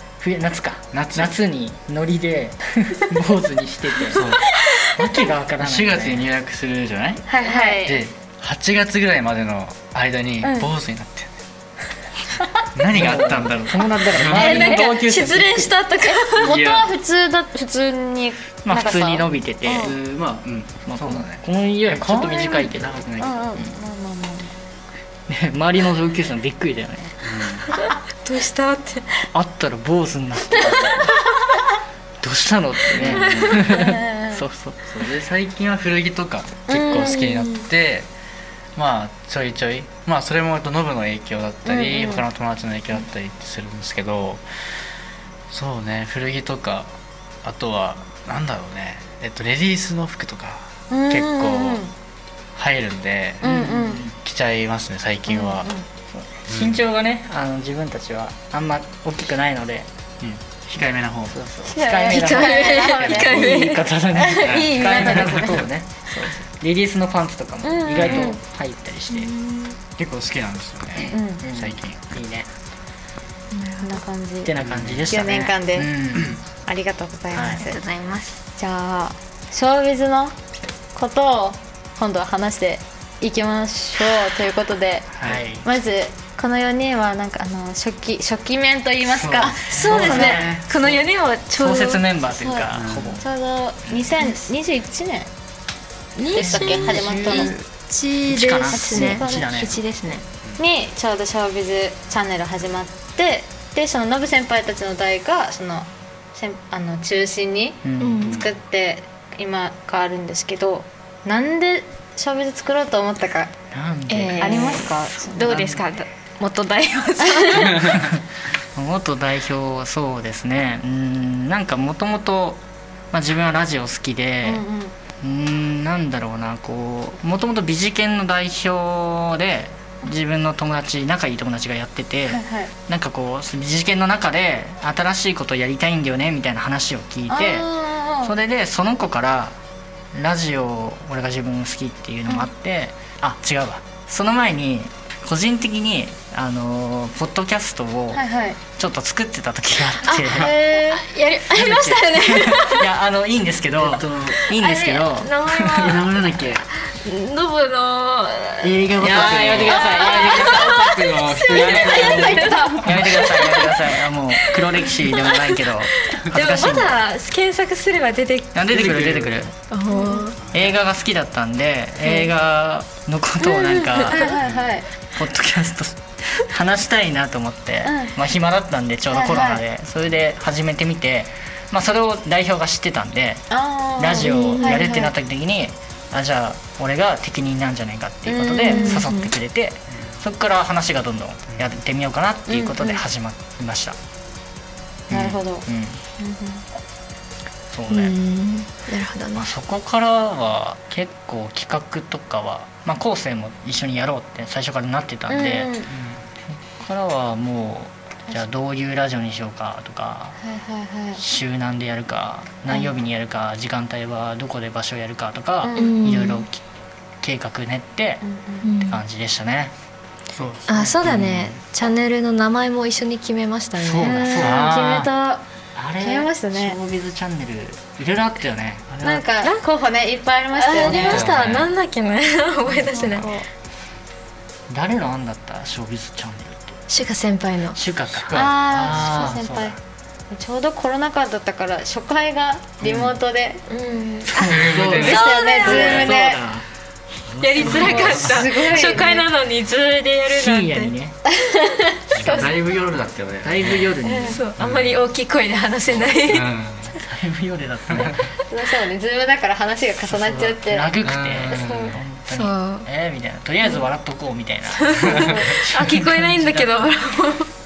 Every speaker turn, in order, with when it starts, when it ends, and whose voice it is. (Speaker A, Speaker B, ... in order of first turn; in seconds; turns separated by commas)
Speaker A: 0.2-6.3, Speaker B: 0.9-1.3, Speaker B: 4.1-4.5, Speaker C: 4.2-4.8, Speaker B: 5.6-11.3, Speaker D: 7.3-8.0, Speaker C: 7.4-7.8, Speaker D: 10.4-10.7, Speaker B: 12.7-14.8, Speaker A: 12.9-15.8, Speaker C: 14.3-16.5, Speaker D: 16.0-19.9, Speaker B: 16.4-16.9, Speaker A: 18.6-19.9, Speaker B: 19.8-23.5, Speaker A: 20.9-23.0, Speaker D: 23.2-24.6, Speaker A: 25.3-27.2, Speaker B: 27.2-27.7, Speaker C: 27.9-29.1, Speaker A: 29.3-31.2, Speaker A: 32.2-35.1, Speaker B: 32.9-33.6, Speaker C: 33.0-33.7, Speaker D: 33.7-34.4, Speaker B: 34.9-38.1, Speaker D: 36.7-37.6, Speaker C: 36.8-37.4, Speaker B: 38.7-44.4, Speaker D: 41.6-42.2, Speaker B: 45.5-46.9, Speaker B: 47.4-51.9, Speaker D: 50.9-51.9, Speaker B: 52.5-55.7, Speaker D: 53.4-54.0, Speaker A: 53.4-54.2, Speaker D: 55.3-55.9, Speaker A: 56.1-59.9, Speaker B: 56.5-56.8, Speaker B: 60.2-61.4, Speaker A: 61.3-69.3, Speaker C: 61.7-63.8, Speaker D: 61.7-65.6, Speaker B: 64.4-65.6, Speaker D: 67.6-68.4, Speaker B: 68.0-68.3, Speaker C: 69.1-69.8, Speaker B: 70.0-72.0, Speaker A: 71.0-72.5, Speaker D: 71.1-71.4, Speaker C: 73.5-74.0, Speaker D: 73.8-74.5, Speaker A: 74.4-76.4, Speaker B: 74.6-75.0, Speaker D: 75.1-75.9, Speaker D: 76.6-77.8, Speaker A: 77.3-77.6, Speaker C: 77.5-78.4, Speaker D: 78.6-80.3, Speaker D: 80.9-85.1, Speaker A: 85.2-85.7, Speaker D: 85.6-90.5, Speaker A: 89.0-93.2, Speaker C: 89.7-92.0, Speaker D: 92.3-92.7, Speaker B: 92.7-93.2, Speaker D: 93.2-95.3, Speaker C: 96.2-100.2, Speaker D: 96.3-97.5, Speaker A: 96.3-97.6, Speaker A: 98.3-99.8, Speaker D: 98.7-99.7, Speaker D: 100.6-113.5, Speaker A: 107.8-108.3, Speaker C: 108.0-108.4, Speaker B: 108.2-108.5, Speaker A: 113.7-115.8, Speaker C: 114.1-118.0, Speaker D: 114.3-115.5, Speaker D: 117.2-117.8, Speaker A: 117.8-118.2, Speaker A: 118.7-124.6, Speaker D: 124.4-124.9, Speaker A: 125.2-137.7, Speaker D: 132.3-132.7, Speaker D: 137.3-138.3, Speaker A: 138.2-139.6, Speaker A: 140.1-148.2, Speaker D: 148.1-148.6, Speaker A: 148.8-150.6, Speaker C: 150.0-152.9, Speaker D: 150.3-151.0, Speaker A: 151.5-156.0, Speaker B: 153.8-154.4, Speaker C: 154.5-156.2, Speaker B: 155.8-156.6, Speaker C: 156.8-168.5, Speaker B: 158.6-163.2, Speaker A: 159.0-160.8, Speaker D: 159.7-160.6, Speaker D: 161.5-163.6, Speaker A: 161.5-167.0, Speaker A: 168.5-169.5, Speaker B: 168.7-169.4, Speaker C: 169.7-170.4, Speaker D: 169.9-170.3, Speaker B: 170.4-170.7, Speaker A: 170.5-174.3, Speaker D: 172.0-172.3, Speaker D: 173.6-174.9, Speaker C: 174.0-174.3, Speaker B: 174.4-174.7, Speaker A: 175.1-194.0, Speaker D: 177.8-178.1, Speaker D: 179.1-179.6, Speaker D: 183.5-185.1, Speaker C: 184.1-185.0, Speaker D: 188.3-189.0, Speaker C: 188.6-189.3, Speaker B: 189.9-190.2, Speaker D: 192.5-193.0, Speaker D: 195.1-195.7, Speaker A: 195.1-196.0, Speaker D: 196.2-196.6, Speaker A: 197.7-198.2, Speaker C: 197.9-199.4, Speaker A: 199.3-205.7, Speaker D: 205.3-205.9, Speaker B: 205.9-206.2, Speaker A: 206.5-210.4, Speaker D: 210.4-211.2, Speaker A: 211.2-216.6, Speaker D: 215.6-216.2, Speaker C: 215.7-216.4, Speaker A: 217.2-218.2, Speaker D: 218.2-218.7, Speaker C: 218.6-219.0, Speaker A: 218.8-219.7, Speaker B: 220.3-221.5, Speaker C: 220.7-224.3, Speaker A: 220.7-221.5, Speaker A: 223.8-224.7, Speaker D: 224.0-225.4, Speaker B: 224.4-225.1, Speaker A: 225.8-229.0, Speaker D: 226.0-226.8, Speaker B: 228.9-229.2, Speaker D: 229.0-231.3, Speaker C: 230.5-233.4, Speaker B: 230.8-231.7, Speaker A: 230.9-231.4, Speaker D: 232.9-233.4, Speaker A: 232.9-233.2, Speaker A: 234.7-236.8, Speaker C: 236.9-237.8, Speaker A: 237.7-239.8, Speaker B: 238.1-239.4, Speaker D: 238.3-239.8, Speaker D: 240.3-244.2, Speaker B: 242.8-243.1, Speaker C: 243.7-246.2, Speaker A: 244.2-246.7, Speaker B: 244.4-245.3, Speaker D: 245.0-246.4, Speaker A: 247.2-249.1, Speaker C: 247.4-250.9, Speaker B: 247.6-248.3, Speaker D: 247.7-249.2, Speaker A: 250.3-251.2, Speaker D: 251.4-252.6, Speaker B: 252.1-253.9, Speaker C: 252.2-252.5, Speaker A: 253.4-254.4, Speaker D: 254.0-254.4, Speaker C: 254.2-256.5, Speaker B: 254.6-255.0, Speaker B: 255.9-256.9, Speaker A: 256.9-258.3, Speaker B: 257.9-258.1, Speaker D: 258.5-260.9, Speaker A: 260.1-266.8, Speaker B: 261.0-262.0, Speaker D: 261.5-261.9, Speaker C: 262.3-262.9, Speaker C: 264.8-267.5, Speaker D: 265.1-265.5